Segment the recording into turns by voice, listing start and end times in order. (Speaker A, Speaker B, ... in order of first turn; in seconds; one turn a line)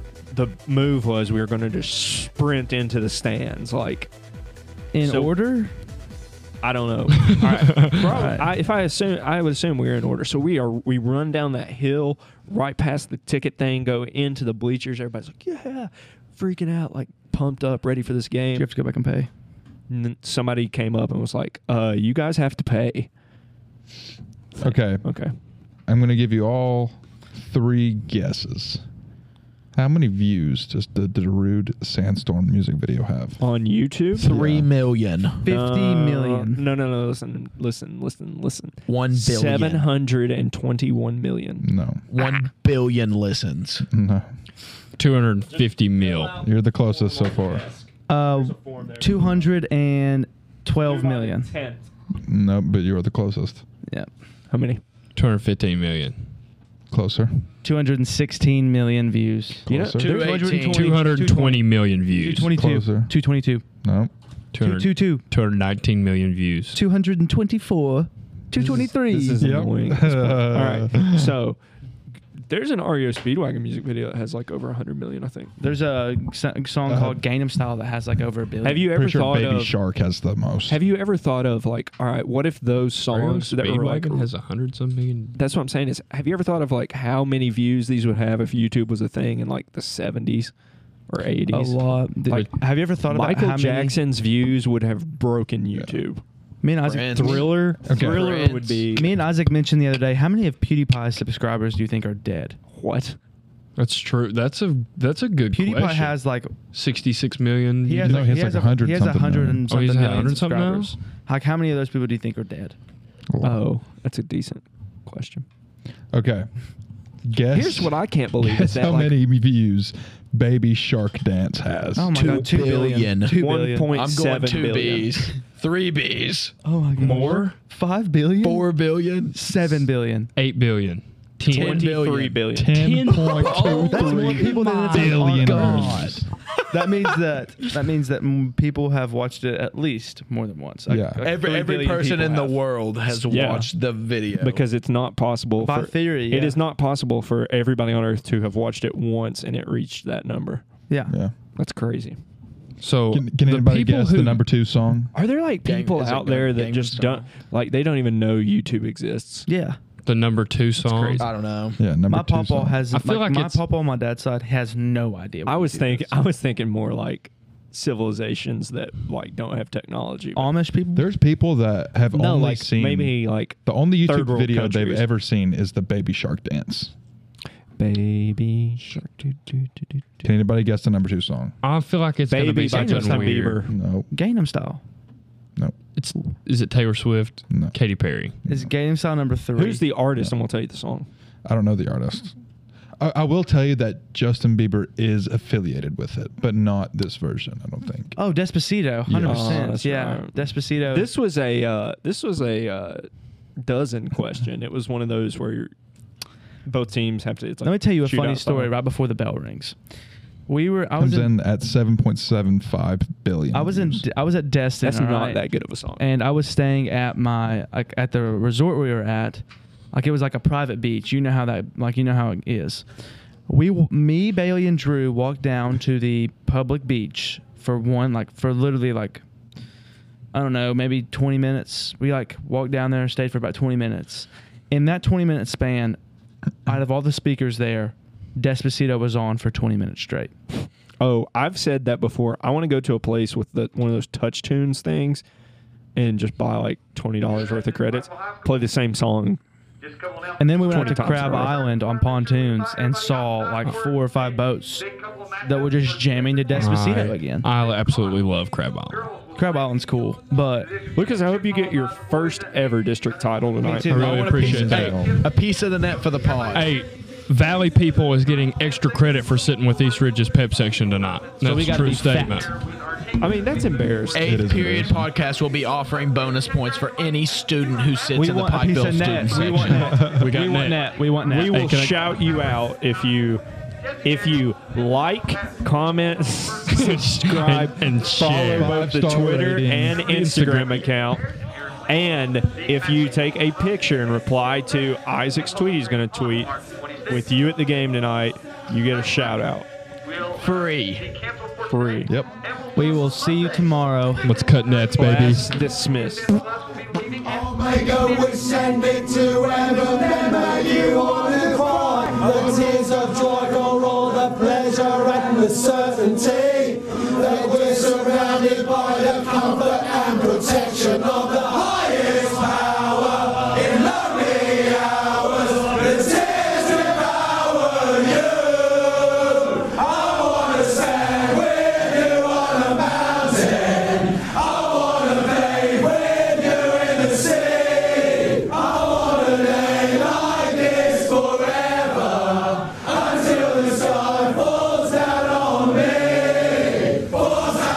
Speaker A: 0.3-4.1
Speaker B: 4.9-5.8
Speaker A: 5.0-5.3
Speaker A: 6.6-18.7
Speaker C: 7.4-8.1
Speaker B: 7.4-8.5
Speaker B: 18.5-19.3
Speaker A: 19.9-23.1
Speaker A: 24.5-25.3
Speaker D: 24.6-25.1
Speaker D: 25.9-28.8
Speaker D: 29.7-33.4
Speaker A: 33.4-34.2
Speaker D: 34.1-34.7
Speaker E: 34.2-35.4
Speaker B: 35.4-36.6
Speaker A: 35.4-41.7
Speaker E: 38.9-39.9
Speaker D: 41.6-42.0
Speaker E: 42.1-43.9
Speaker D: 43.9-44.3
Speaker C: 45.0-46.4
Speaker A: 46.0-49.2
Speaker D: 46.4-47.7
Speaker B: 48.1-51.5
Speaker A: 50.8-51.9
Speaker D: 52.1-53.6
Speaker A: 54.5-54.8
Speaker C: 55.1-56.2
Speaker D: 56.9-57.4
Speaker B: 57.6-63.6
Speaker A: 59.7-60.0
Speaker D: 59.7-60.2
Speaker E: 60.0-61.1
Speaker C: 60.7-62.6
Speaker D: 62.5-63.1
Speaker D: 63.8-64.1
Speaker C: 64.5-66.8
Speaker B: 64.6-65.2
Speaker B: 66.7-69.4
Speaker A: 68.6-71.6
Speaker D: 69.4-71.3
Speaker A: 72.3-75.5
Speaker B: 75.6-78.9
Speaker D: 76.9-77.2
Speaker A: 78.6-79.8
Speaker D: 78.9-80.8
Speaker A: 80.7-84.3
Speaker C: 83.1-85.3
Speaker A: 85.3-90.5
Speaker A: 91.1-92.4
Speaker B: 91.5-94.0
Speaker A: 93.1-96.2
Speaker D: 95.7-96.0
Speaker B: 96.6-97.5
Speaker E: 96.8-99.0
Speaker A: 97.1-99.1
Speaker D: 97.8-98.4
Speaker B: 98.4-102.6
Speaker A: 102.7-103.2
Speaker C: 103.8-106.2
Speaker B: 105.5-106.5
Speaker C: 106.7-108.3
Speaker B: 107.8-112.8
Speaker D: 108.0-109.6
Speaker C: 109.7-110.9
Speaker D: 113.3-113.6
Speaker A: 113.4-115.5
Speaker D: 116.1-116.5
Speaker D: 117.2-122.4
Speaker A: 117.5-119.2
Speaker B: 122.0-123.9
Speaker A: 122.1-125.2
Speaker E: 122.5-123.3
Speaker E: 123.9-126.5
Speaker B: 126.6-128.7
Speaker C: 127.0-127.5
Speaker E: 128.4-129.5
Speaker B: 129.3-130.3
Speaker C: 130.3-131.9
Speaker A: 131.4-134.5
Speaker E: 131.5-132.4
Speaker D: 132.5-136.3
Speaker C: 133.4-134.9
Speaker E: 133.6-134.4
Speaker B: 133.8-136.1
Speaker E: 134.9-136.3
Speaker B: 136.7-142.6
Speaker D: 140.9-141.3
Speaker E: 141.2-144.6
Speaker A: 143.1-143.7
Speaker A: 144.4-150.6
Speaker B: 145.6-146.6
Speaker D: 151.1-151.3
Speaker A: 151.6-152.2
Speaker C: 152.8-154.4
Speaker D: 153.1-155.1
Speaker A: 155.1-159.5
Speaker E: 155.6-157.3
Speaker B: 159.5-159.8
Speaker C: 160.0-161.3
Speaker A: 160.8-161.2
Speaker E: 161.2-161.8
Speaker D: 161.8-162.8
Speaker B: 162.1-166.2
Speaker C: 162.9-163.6
Speaker A: 165.4-170.5
Speaker B: 170.3-171.1
Speaker D: 170.9-176.9
Speaker A: 172.1-175.1
Speaker A: 177.8-180.0
Speaker D: 180.2-181.6
Speaker C: 181.6-183.7
Speaker A: 182.3-183.7
Speaker B: 182.6-183.5
Speaker D: 183.7-184.1
Speaker B: 184.1-184.8
Speaker C: 185.9-188.4
Speaker D: 187.5-187.7
Speaker B: 188.5-189.8
Speaker A: 189.5-191.1
Speaker D: 191.4-192.3
Speaker D: 193.0-198.2
Speaker B: 198.2-201.1
Speaker D: 199.1-199.8
Speaker A: 199.2-203.1
Speaker A: 203.6-205.7
Speaker A: 206.7-208.7
Speaker B: 207.6-209.7
Speaker B: 210.5-211.3
Speaker D: 211.0-214.1
Speaker B: 213.5-215.4
Speaker A: 214.8-216.1
Speaker B: 216.0-222.8
Speaker B: 223.5-229.2
Speaker B: 230.3-236.0
Speaker B: 236.7-240.3
Speaker A: 241.0-245.2
Speaker A: 245.9-249.4
Speaker B: 250.4-257.5
Speaker A: 250.7-251.6
Speaker C: 256.5-259.2
Speaker B: 259.4-260.8
Speaker A: 260.9-264.1
Speaker B: 263.6-264.6
Speaker C: 263.9-265.1
Speaker D: 263.9-265.2
Speaker E: 264.0-266.7
Speaker C: 266.5-272.5
Speaker B: 271.4-272.5
Speaker A: 273.2-274.2
Speaker E: 274.1-279.9
Speaker D: 274.2-275.1
Speaker B: 278.1-281.9
Speaker C: 279.6-280.9
Speaker A: 281.2-283.4
Speaker C: 281.5-282.0
Speaker A: 284.0-291.3
Speaker C: 286.7-288.8
Speaker D: 288.4-290.2
Speaker C: 290.1-290.9
Speaker A: 291.9-299.7
Speaker E: 300.3-301.2
Speaker A: 301.6-302.1
Speaker D: 302.1-302.3
Speaker B: 302.7-304.2
Speaker C: 304.2-305.5
Speaker A: 304.9-306.4
Speaker F: 307.3-328.7
Speaker F: 329.5-346.1